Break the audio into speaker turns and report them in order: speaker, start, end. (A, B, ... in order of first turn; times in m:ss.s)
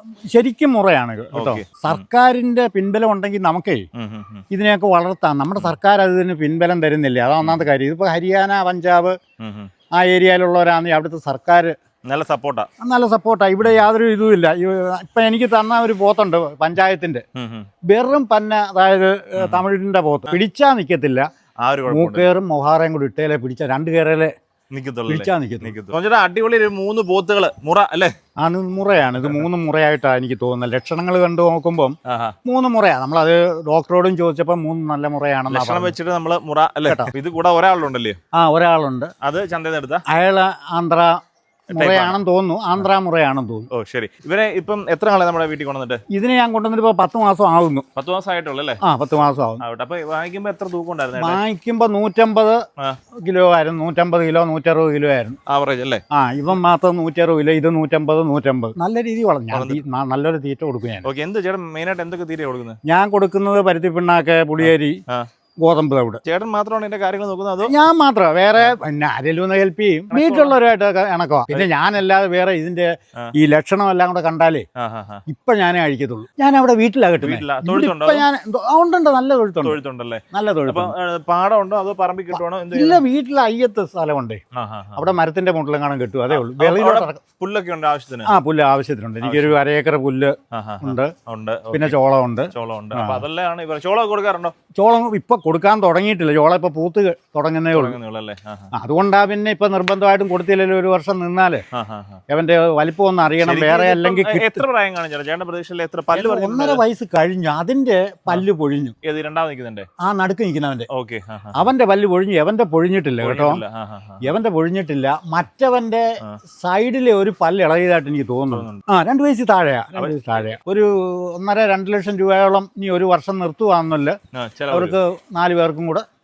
0:00.3-0:03.8 A
0:01.3-0:02.0 B
0:04.0-0:04.4 B
0:04.5-0:09.2 A
0:09.4-0:09.7 B
0:10.0-0:11.7 A
0:12.0-0:12.7 B
0:12.8-0:17.2 A
0:17.4-0:17.7 B
0:17.9-0:21.3 A
0:19.4-0:19.6 B
0:21.6-0:22.3 B
0:21.9-0:24.3 A
0:24.7-0:28.1 B
0:25.1-0:25.7 A
0:28.4-0:35.9 A
0:32.0-0:32.3 B
0:35.5-0:38.2 B
0:38.3-0:39.1 A
0:39.2-0:40.0 B
0:40.1-0:41.1 A
0:41.7-0:42.2 B
0:41.7-0:43.7 A
0:43.7-0:46.0 B
0:46.1-0:47.8 A
0:48.0-0:48.8 B
0:48.8-0:49.6 A
0:49.6-0:51.4 B
0:51.2-0:52.6 A
0:53.2-0:55.4 A
0:55.5-0:56.0 B
0:56.1-1:01.1 A
0:59.5-0:59.8 B
1:01.0-1:02.8 B
1:02.8-1:05.0 A
1:04.6-1:05.3 B
1:05.6-1:06.2 A
1:06.2-1:07.7 B
1:07.7-1:14.7 A
1:10.1-1:10.6 B
1:14.8-1:15.2 B
1:15.3-1:19.8 A
1:17.2-1:18.3 B
1:19.6-1:23.0 B
1:20.3-1:20.9 A
1:22.3-1:24.4 A
1:24.5-1:25.1 B
1:25.0-1:27.2 A
1:26.3-1:28.3 B
1:28.2-1:31.1 A
1:29.2-1:29.6 B
1:30.5-1:32.0 B
1:31.7-1:33.2 A
1:32.5-1:34.5 B
1:34.8-1:38.0 A
1:37.7-1:38.7 B
1:38.7-1:41.6 A
1:41.7-1:42.2 B
1:42.3-1:44.6 A
1:43.4-1:46.8 B
1:46.1-1:48.9 A
1:49.0-1:49.9 B
1:50.0-1:50.9 A
1:50.9-1:51.6 B
1:51.6-1:53.6 A
1:53.2-1:54.3 B
1:54.2-2:04.2 A
1:58.5-1:58.8 B
2:04.3-2:05.0 B
2:04.7-2:06.0 A